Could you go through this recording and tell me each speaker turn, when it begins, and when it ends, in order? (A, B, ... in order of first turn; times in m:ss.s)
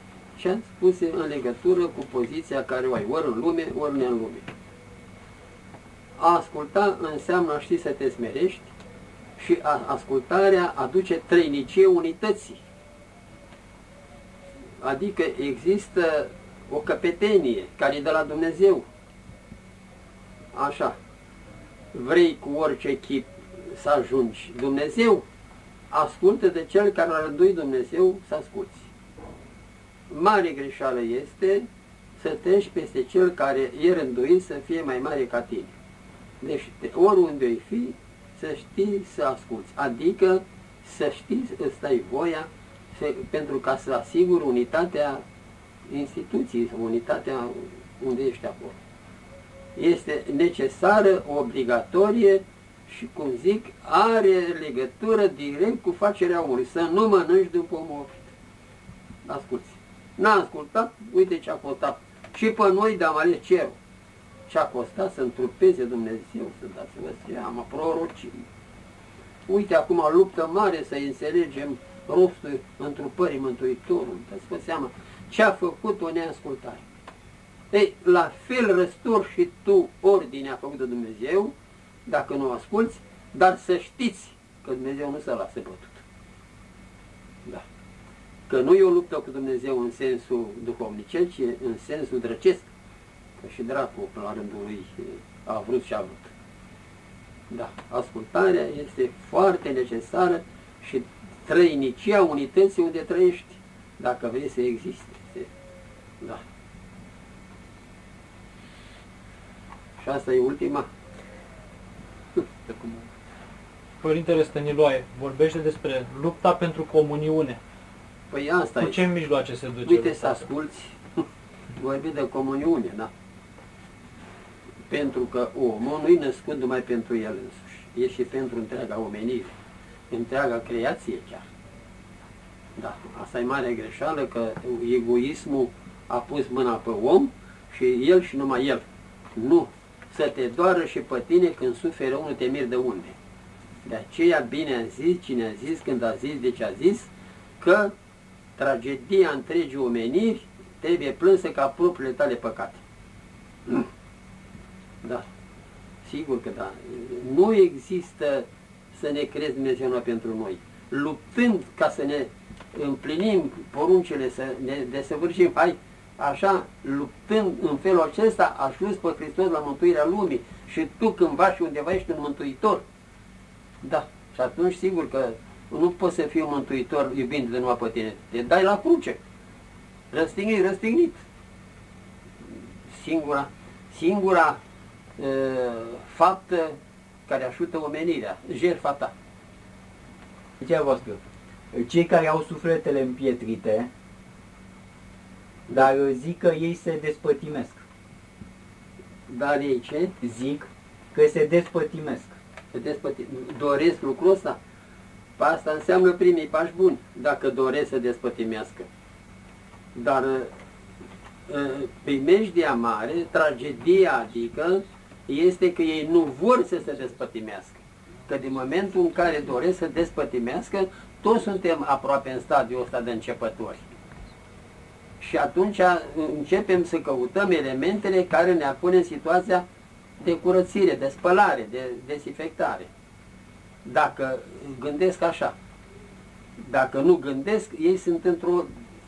0:00.4-0:04.5 A
0:06.2-0:08.7 A
0:09.4-0:12.6 A
0:14.8-0:18.8 A
0:20.5-0:21.0 A
0:21.9-0:25.2 A
0:25.9-0:28.9 A
0:30.1-0:31.7 A
0:32.2-0:35.7 A
0:36.4-0:45.2 A
0:45.9-0:48.8 A
0:49.8-0:58.3 A
0:59.2-1:03.8 A
1:04.5-1:08.4 A
1:09.5-1:16.8 A
1:17.7-1:21.5 A
1:22.0-1:26.0 A
1:28.5-1:32.7 A
1:33.4-1:36.3 A
1:37.5-1:45.5 A
1:50.0-1:50.9 A
1:54.0-1:57.6 B
1:58.3-1:59.0 A
1:58.8-2:00.3 B
1:59.8-2:01.2 A
2:01.8-2:03.1 A
2:04.9-2:09.5 A
2:10.1-2:11.4 A
2:12.8-2:23.2 A
2:23.8-2:27.9 A
2:28.6-2:32.8 A
2:36.0-2:52.8 A
2:53.8-2:59.2 A
3:00.1-3:01.2 A
3:02.9-3:04.6 A
3:05.2-3:09.1 A
3:10.6-3:11.2 C
3:11.7-3:13.9 C
3:15.7-3:17.8 C
3:19.3-3:20.1 A
3:20.2-3:22.4 C
3:22.7-3:24.6 A
3:25.4-3:28.9 A
3:29.9-3:30.5 A
3:31.5-3:43.8 A
3:45.2-3:49.6 A
3:50.2-3:52.9 A
3:53.8-3:55.6 A
3:56.6-3:58.7 A